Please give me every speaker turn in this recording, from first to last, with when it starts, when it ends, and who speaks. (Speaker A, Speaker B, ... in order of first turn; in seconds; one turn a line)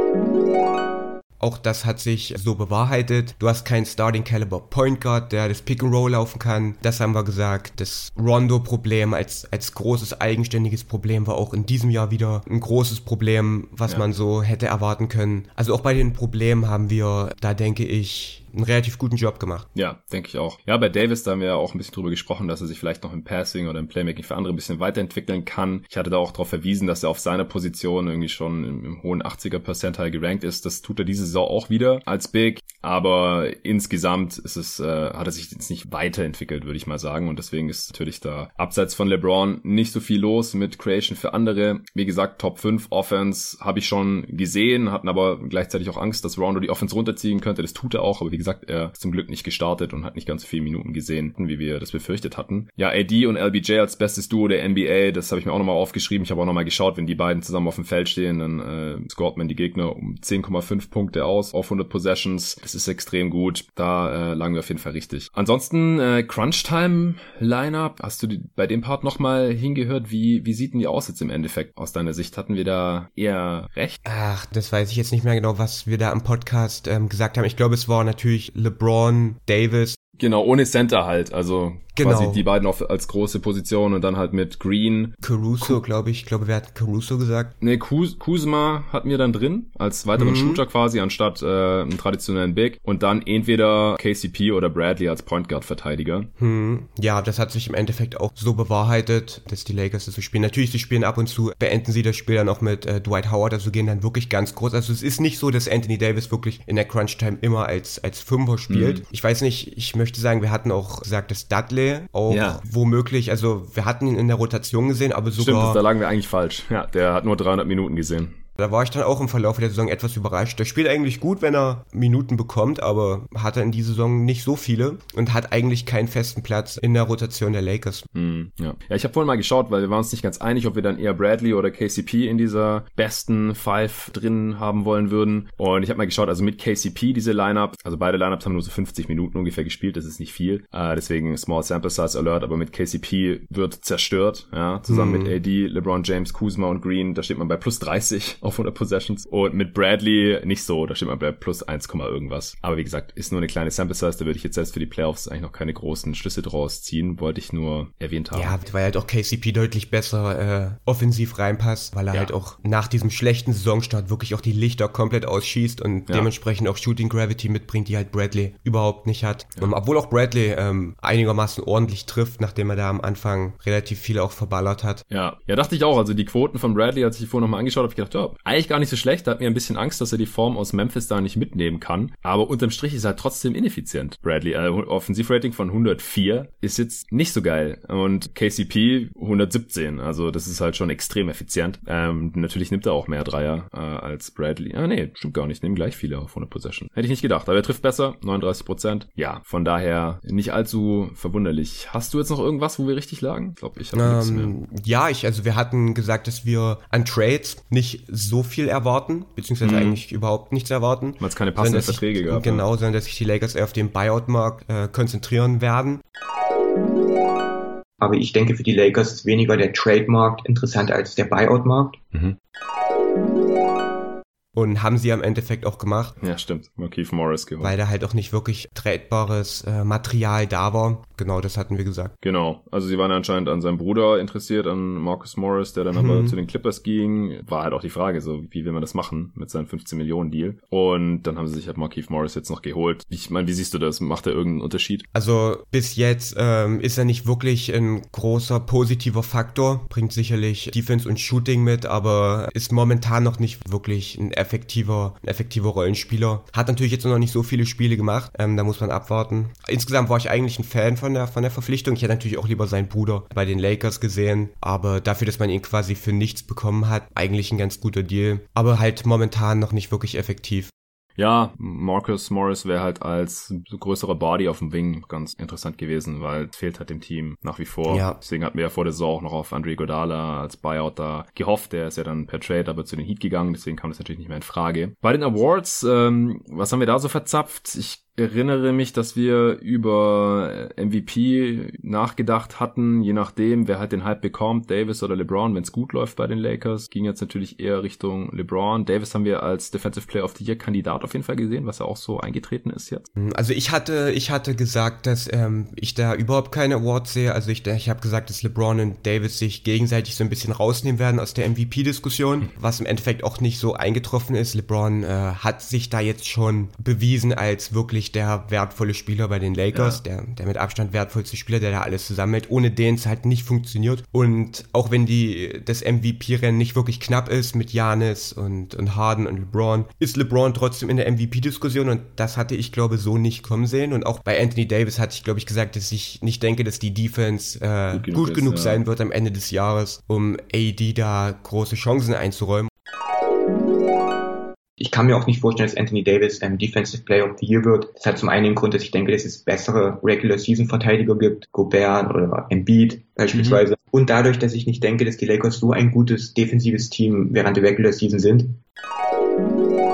Speaker A: 1.4-19.7
Speaker B: 19.7-74.0
Speaker A: 74.0-80.0
Speaker B: 80.2-85.8
Speaker A: 82.0-82.4
Speaker A: 85.2-87.5
Speaker B: 87.6-96.3
Speaker A: 90.1-90.6
Speaker A: 96.4-115.8
Speaker B: 108.7-109.0
Speaker B: 112.3-112.6
Speaker B: 115.4-118.4
Speaker A: 118.6-128.1
Speaker B: 128.1-158.6
Speaker A: 144.9-145.3
Speaker A: 158.3-175.0
Speaker B: 175.1-204.6
Speaker A: 203.9-216.0
Speaker B: 209.6-210.0
Speaker B: 211.2-212.7
Speaker C: 218.0-222.0
Speaker A: 224.5-226.2
Speaker B: 226.2-227.8
Speaker A: 227.6-232.1
Speaker B: 232.2-245.1
Speaker A: 235.9-236.4
Speaker A: 245.1-270.7
Speaker B: 271.2-303.1
Speaker A: 277.9-278.2
Speaker A: 303.2-342.7
Speaker B: 319.7-320.0
Speaker B: 337.9-338.8
Speaker C: 344.8-358.6
Speaker A: 353.3-353.6